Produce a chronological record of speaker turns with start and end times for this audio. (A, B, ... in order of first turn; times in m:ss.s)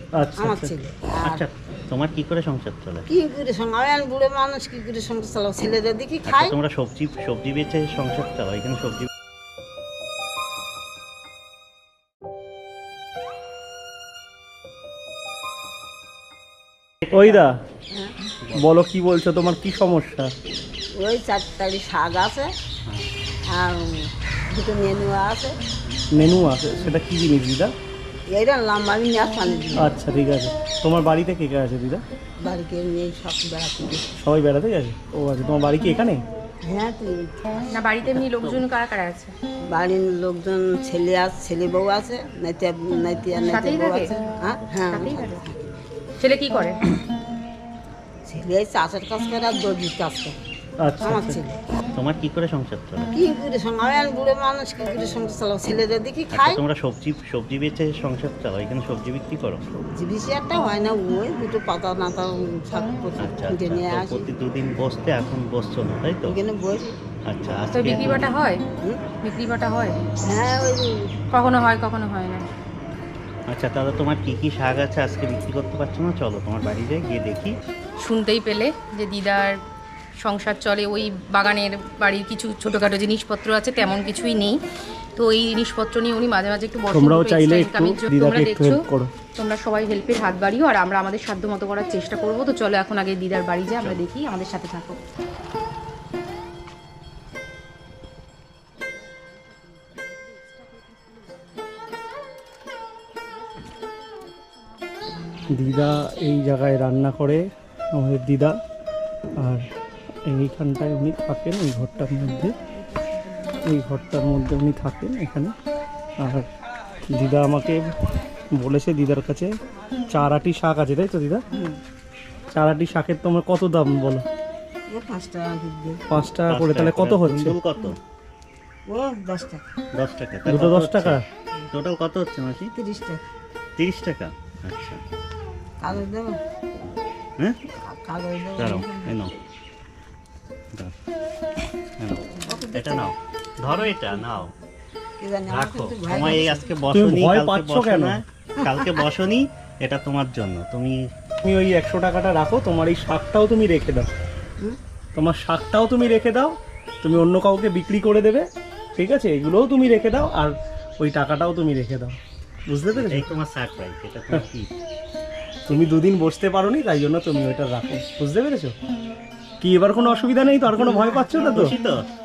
0:00.2-0:00.7 A
0:00.4-0:01.4 B
0:01.3-0:03.1 C
0:03.1-0:06.6 B
0:06.3-0:09.1 C
0:17.1-0:17.6 A
0:18.4-0:18.7 C
0:18.5-0:20.3 A
0:21.0-0:22.5 B
0:23.5-0:25.6 B
0:26.1-0:27.7 A
0:28.3-0:29.9 B
0:29.8-0:32.0 A
0:32.4-0:34.1 B
0:34.2-0:36.2 A
0:36.6-0:37.8 B
0:37.7-0:39.3 D
0:38.0-0:38.6 C
0:39.7-0:45.8 B
0:43.4-0:44.1 D
0:44.8-0:45.4 D
0:46.2-0:46.8 D
0:48.3-0:50.3 B
0:50.8-0:51.4 A
0:51.0-0:51.5 B
0:52.0-0:53.1 C
0:53.1-0:56.6 B
0:56.3-0:59.6 C
0:59.8-1:04.3 B
1:03.2-1:06.4 C
1:06.3-1:07.0 B
1:07.3-1:08.3 C
1:07.7-1:08.6 D
1:09.2-1:10.0 D
1:10.2-1:11.1 B
1:11.3-1:12.4 D
1:13.5-1:17.6 C
1:18.0-1:19.6 D
1:20.2-1:24.6 D
1:25.2-1:28.8 D
1:26.9-1:29.1 A
1:29.4-1:35.0 D
1:33.8-1:34.0 C
1:45.1-1:45.5 B
1:45.5-1:48.6 A
1:49.4-1:49.7 A
1:50.3-1:52.6 A
1:53.6-1:55.5 A
1:56.2-1:56.5 A
1:57.1-1:57.9 A
1:58.6-1:59.5 A
2:00.1-2:01.4 A
2:01.5-2:01.8 B
2:02.5-2:04.2 A
2:04.9-2:06.0 B
2:06.1-2:07.6 A
2:06.5-2:08.0 C
2:08.9-2:09.6 B
2:10.0-2:11.2 C
2:10.5-2:11.2 A
2:11.7-2:12.7 C
2:12.8-2:13.2 B
2:13.8-2:15.0 C
2:15.8-2:16.4 B
2:17.8-2:19.1 B
2:18.6-2:19.3 C
2:22.0-2:24.5 C
2:22.4-2:23.1 B
2:23.7-2:24.2 B
2:25.2-2:26.7 B
2:25.5-2:31.0 C
2:26.9-2:28.2 A
2:31.4-2:34.1 A
2:35.2-2:42.2 A
2:42.7-2:43.3 A
2:42.9-2:44.7 C
2:45.7-2:48.8 A
2:49.6-2:51.7 A
2:50.8-2:51.7 B
2:51.4-2:52.1 C